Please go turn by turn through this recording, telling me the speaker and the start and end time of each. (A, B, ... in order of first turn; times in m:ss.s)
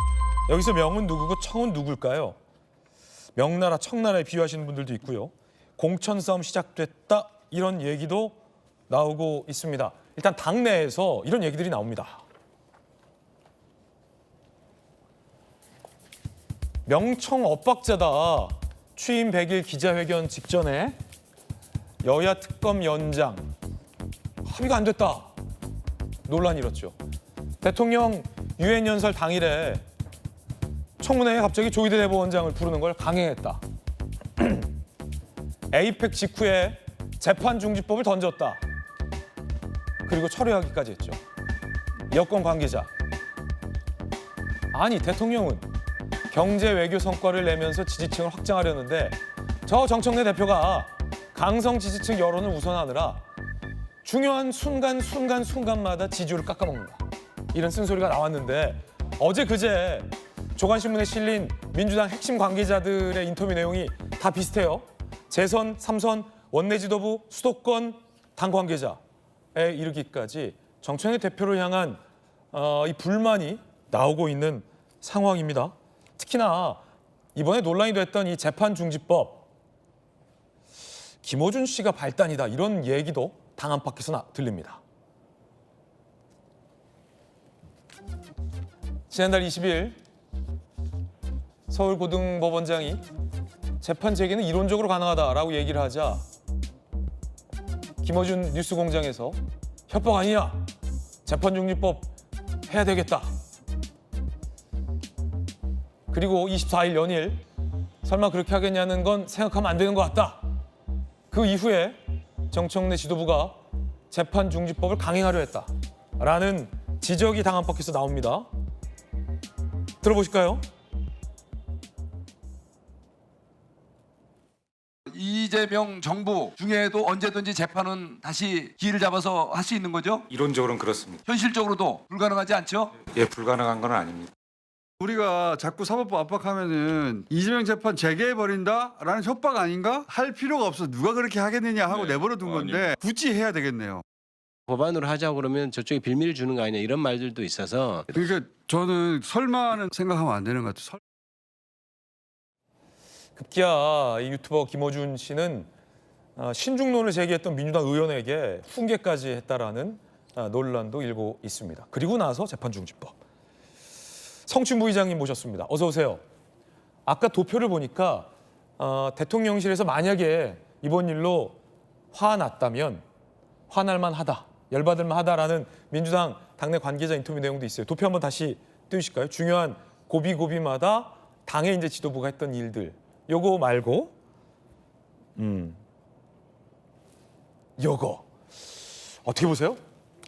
0:00.5-0:02.4 A
0:03.4-0:08.4 A
0:08.9-0:12.2 A
0:16.8-0:21.0 A
0:22.0-0:23.4 A
0:24.4-0:25.3 A
0:26.3-0:26.9 A
0:27.6-0:29.8 A
0:31.0-0:33.6 A
0:34.4-0:34.7 A
0:35.7-0:38.6 A
0:40.0-0:41.2 A
0:42.1-0:42.9 A
0:44.7-0:45.6 A
0:46.3-0:53.2 A
0:54.0-1:09.0 A
1:09.5-1:12.0 A
1:12.5-1:16.8 A
1:17.3-1:19.4 A
1:21.2-1:24.8 A
1:29.1-1:30.0 A
1:31.7-1:33.0 A
1:33.8-1:36.2 A
1:38.0-1:40.6 A
1:41.2-1:42.1 A
1:42.7-1:43.3 A
1:46.1-1:47.4 A
1:48.0-1:50.5 A
1:51.3-1:52.0 A
1:52.5-1:58.5 A
2:00.0-2:00.6 A
2:05.1-2:10.3 B
2:10.3-2:11.2 C
2:11.2-2:13.0 B
2:13.1-2:14.3 C
2:15.0-2:24.0 D
2:24.7-2:28.2 E
2:28.1-2:31.0 D
2:33.4-2:35.7 A
2:36.4-2:43.1 A
2:44.4-2:46.2 A
2:47.0-2:51.6 A
2:52.1-2:53.0 A
2:53.7-3:04.1 A
3:05.4-3:05.8 A
3:07.8-3:08.2 A
3:09.1-3:09.8 A